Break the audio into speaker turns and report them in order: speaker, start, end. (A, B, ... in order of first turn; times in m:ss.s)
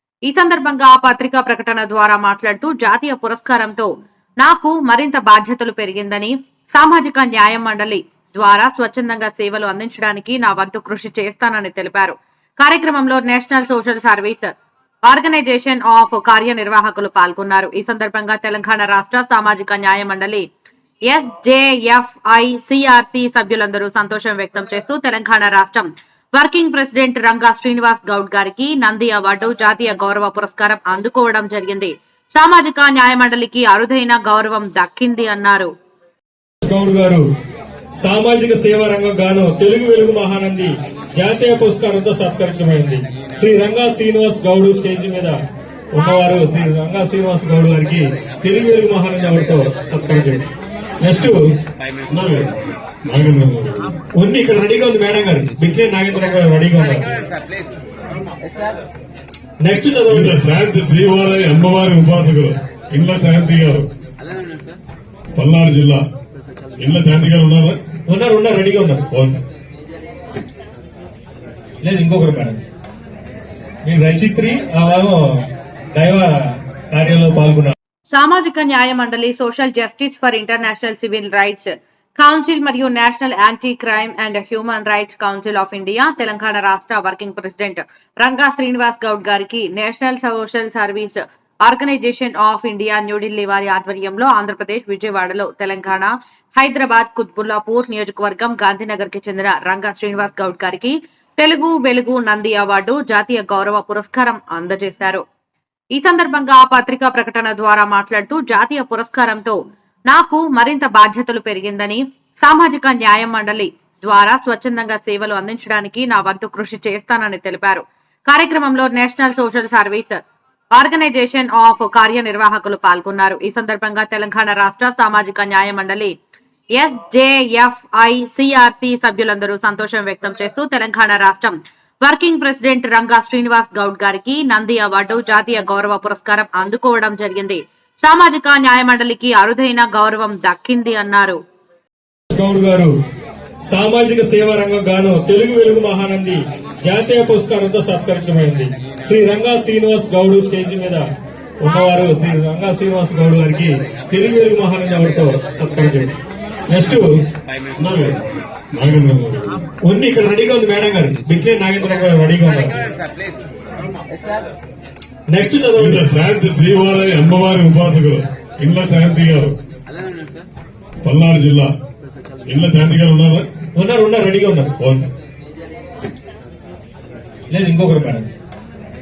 0:00.2-0:14.5 A
0:15.0-0:20.4 A
0:21.0-0:35.7 A
0:36.6-0:37.3 B
0:38.0-0:45.4 B
0:45.9-0:50.4 B
0:51.0-0:51.5 B
0:52.1-0:53.9 C
0:54.2-0:57.1 B
0:59.6-1:00.4 B
1:00.1-1:03.9 C
1:05.3-1:06.0 C
1:06.8-1:07.8 C
1:08.1-1:09.1 B
1:09.1-1:09.4 C
1:11.8-1:12.6 B
1:13.8-1:17.7 B
1:18.1-1:45.2 A
1:45.9-2:00.2 A
2:00.7-2:06.1 A
2:06.8-2:21.4 A
2:22.3-2:23.0 B
2:23.6-2:31.1 B
2:31.6-2:36.1 B
2:36.7-2:37.2 B
2:37.8-2:39.6 C
2:39.8-2:43.0 B
2:45.3-2:46.1 B
2:45.8-2:49.6 C
2:51.0-2:51.7 C
2:52.5-2:53.5 C
2:53.8-2:54.8 B
2:54.8-2:55.1 C
2:57.5-2:58.3 B